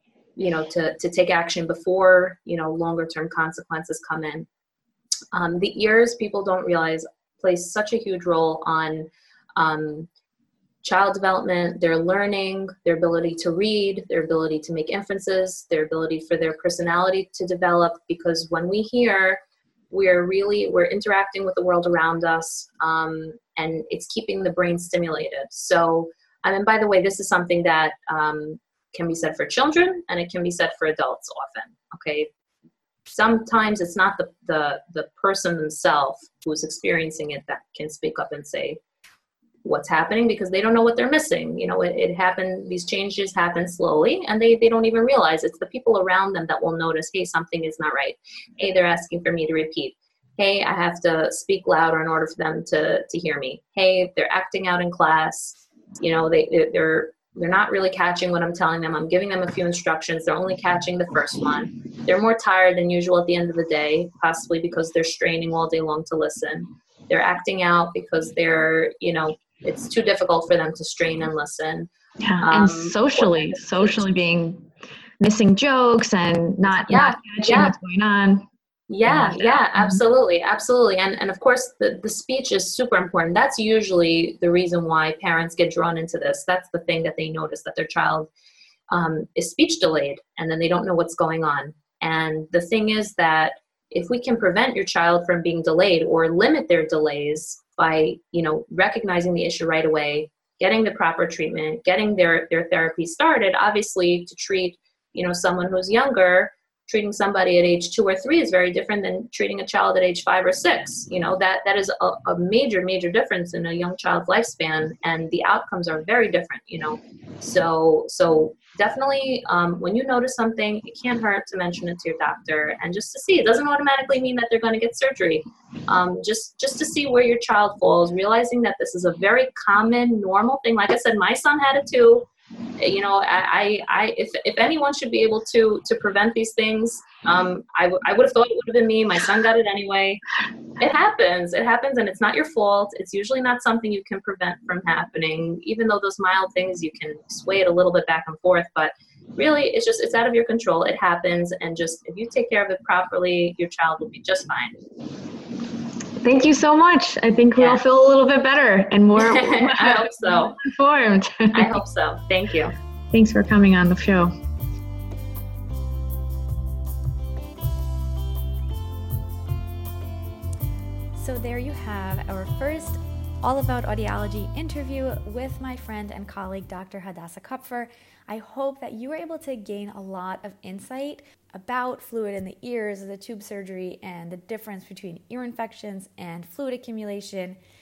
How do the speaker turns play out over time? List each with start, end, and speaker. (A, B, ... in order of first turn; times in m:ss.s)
0:00.4-0:04.5 A
0:05.3-0:10.1 A
0:10.8-0:19.4 A
0:19.9-0:32.3 A
0:33.1-0:38.8 A
0:39.6-1:11.9 A
1:12.2-1:14.6 B
1:12.4-1:14.1 A
1:15.2-1:18.5 B
1:16.9-1:17.7 A
1:18.9-1:28.3 A
1:19.1-1:20.0 B
1:28.9-2:12.3 A
2:12.8-2:20.2 A
2:20.8-2:34.8 A
2:36.2-2:41.8 B
2:37.6-2:37.8 A
2:39.2-2:40.6 A
2:41.5-2:42.8 A
2:43.1-2:44.3 B
2:51.2-3:07.6 C